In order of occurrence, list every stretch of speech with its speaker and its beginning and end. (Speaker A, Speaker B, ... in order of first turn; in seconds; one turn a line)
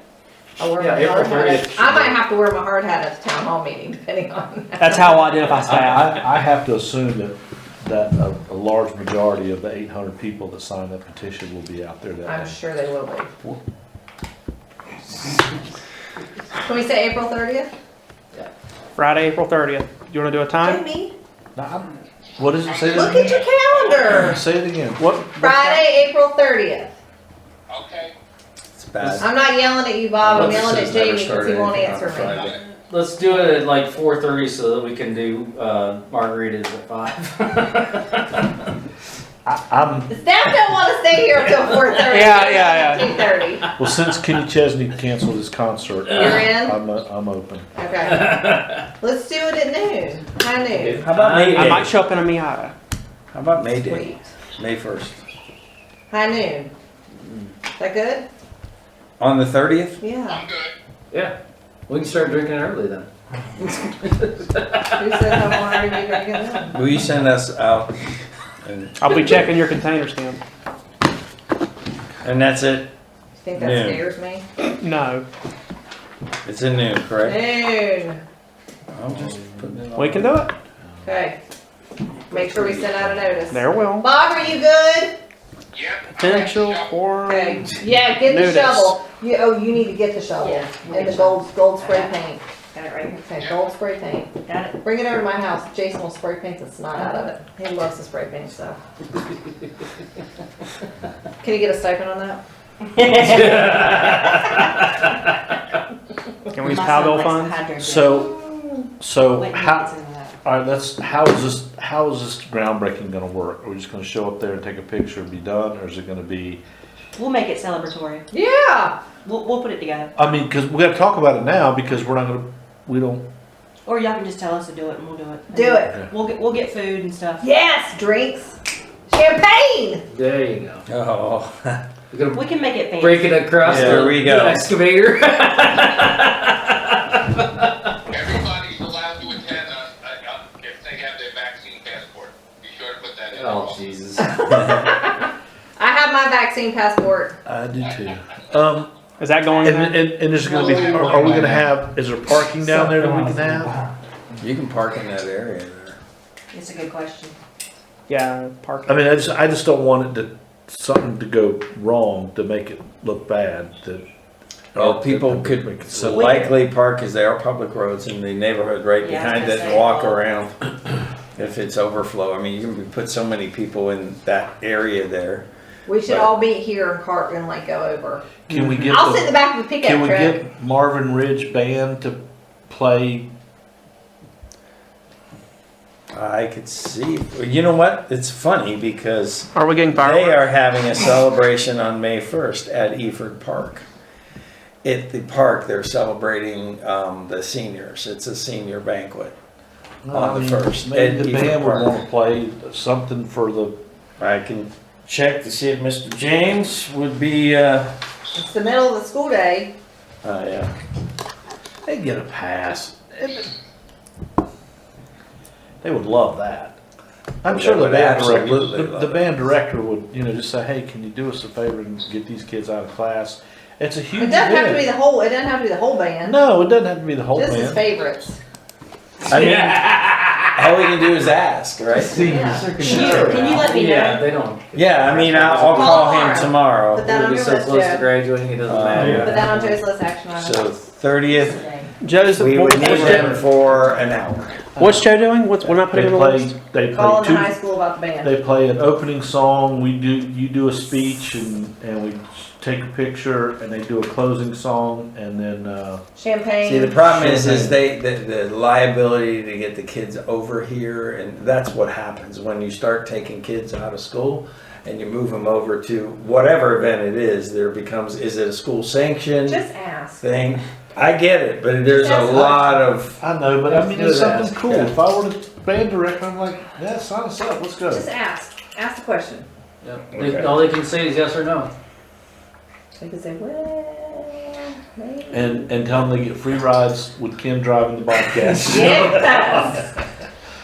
Speaker A: 0.6-5.6
Speaker B: 0.8-2.2
Speaker C: 4.8-6.2
Speaker D: 5.7-12.6
Speaker A: 12.2-13.3
Speaker A: 16.6-17.7
Speaker C: 19.0-20.8
Speaker A: 20.5-21.1
Speaker D: 21.5-23.4
Speaker E: 22.7-24.0
Speaker A: 22.9-24.4
Speaker D: 24.0-25.0
Speaker C: 25.0-25.9
Speaker A: 25.4-26.9
Speaker E: 27.7-28.1
Speaker F: 28.7-29.3
Speaker A: 29.2-32.4
Speaker F: 30.2-32.6
Speaker E: 32.2-32.5
Speaker B: 32.9-38.5
Speaker D: 39.4-40.1
Speaker A: 40.1-43.7
Speaker C: 42.1-43.1
Speaker D: 43.8-47.7
Speaker A: 46.1-46.8
Speaker A: 47.7-48.5
Speaker B: 48.1-48.8
Speaker A: 49.0-51.0
Speaker B: 50.7-51.8
Speaker F: 51.0-51.9
Speaker C: 51.2-52.7
Speaker F: 53.3-54.0
Speaker A: 53.9-54.2
Speaker F: 54.6-55.2
Speaker A: 56.1-56.7
Speaker B: 57.2-57.5
Speaker A: 57.8-58.3
Speaker F: 59.2-60.0
Speaker A: 60.0-60.4
Speaker E: 60.3-60.7
Speaker B: 61.9-65.8
Speaker A: 64.9-66.8
Speaker F: 66.7-67.9
Speaker F: 68.6-69.5
Speaker C: 69.0-70.4
Speaker F: 72.2-72.9
Speaker A: 73.4-74.4
Speaker F: 73.5-74.0
Speaker C: 74.8-75.2
Speaker F: 76.4-77.4
Speaker A: 77.2-78.2
Speaker F: 78.9-80.1
Speaker B: 79.0-80.3
Speaker C: 79.9-80.5
Speaker A: 81.0-81.4
Speaker A: 82.3-85.1
Speaker D: 82.7-83.4
Speaker C: 83.5-84.1
Speaker E: 85.7-87.0
Speaker C: 86.2-89.0
Speaker A: 86.2-86.5
Speaker A: 87.2-92.4
Speaker G: 90.3-92.2
Speaker G: 92.7-93.2
Speaker A: 93.1-98.8
Speaker G: 94.4-94.8
Speaker G: 97.0-97.3
Speaker A: 101.4-102.4
Speaker G: 103.0-103.8
Speaker B: 103.0-105.2
Speaker C: 106.5-107.6
Speaker G: 106.7-108.3
Speaker D: 107.8-109.9
Speaker G: 109.3-110.4
Speaker D: 110.4-116.6
Speaker G: 117.2-118.2
Speaker A: 118.3-119.0
Speaker G: 119.2-120.1
Speaker D: 120.2-123.2
Speaker G: 123.8-127.4
Speaker A: 125.5-125.9
Speaker A: 127.4-128.6
Speaker A: 129.1-130.0
Speaker B: 130.1-130.8
Speaker F: 130.9-131.8
Speaker B: 132.1-137.7
Speaker G: 132.3-133.6
Speaker F: 133.6-134.7
Speaker D: 133.6-134.1
Speaker E: 138.1-143.9
Speaker B: 143.3-144.4
Speaker A: 144.3-147.4
Speaker F: 144.5-144.9
Speaker D: 147.4-148.9
Speaker C: 149.2-150.2
Speaker D: 149.6-153.7
Speaker B: 150.8-151.7
Speaker B: 152.6-153.9
Speaker F: 154.4-156.0
Speaker G: 156.5-157.3
Speaker C: 158.1-159.1
Speaker D: 158.9-164.0
Speaker D: 164.7-166.5
Speaker F: 164.8-170.6
Speaker A: 166.1-166.5
Speaker G: 169.0-170.2
Speaker F: 171.3-175.4
Speaker A: 175.8-178.2
Speaker D: 178.5-183.3
Speaker A: 178.9-180.4
Speaker F: 186.1-193.8
Speaker C: 189.5-190.5
Speaker F: 194.8-199.3
Speaker D: 200.0-203.8
Speaker F: 200.1-201.9
Speaker F: 204.2-207.9
Speaker A: 208.3-209.7
Speaker F: 210.2-210.7
Speaker D: 211.8-213.5
Speaker D: 215.8-216.8
Speaker F: 217.4-219.3
Speaker D: 217.4-224.9
Speaker A: 224.2-226.4
Speaker D: 226.2-227.8
Speaker A: 227.3-228.4
Speaker B: 229.2-230.9
Speaker F: 229.3-229.9
Speaker F: 230.5-233.7
Speaker B: 231.9-239.8
Speaker A: 232.2-232.7
Speaker G: 232.8-234.3
Speaker F: 234.7-237.0
Speaker A: 235.7-238.1
Speaker F: 238.7-239.6
Speaker A: 239.0-240.7
Speaker F: 240.3-241.6
Speaker G: 241.4-241.9
Speaker C: 242.0-243.4
Speaker F: 242.3-244.7
Speaker B: 242.9-243.3
Speaker D: 244.8-245.1
Speaker C: 244.8-246.5
Speaker D: 245.6-247.6
Speaker A: 246.9-248.3
Speaker D: 248.2-256.0
Speaker A: 256.1-257.0
Speaker F: 256.6-269.6
Speaker D: 257.0-257.7
Speaker A: 269.5-270.2
Speaker F: 270.2-273.2
Speaker A: 271.9-272.8
Speaker D: 273.2-278.1
Speaker B: 273.6-274.6
Speaker F: 274.6-274.9
Speaker A: 277.9-279.5
Speaker B: 279.8-281.7
Speaker F: 280.1-280.7
Speaker A: 283.0-286.1
Speaker D: 285.3-289.1
Speaker F: 288.4-289.6
Speaker A: 288.6-289.9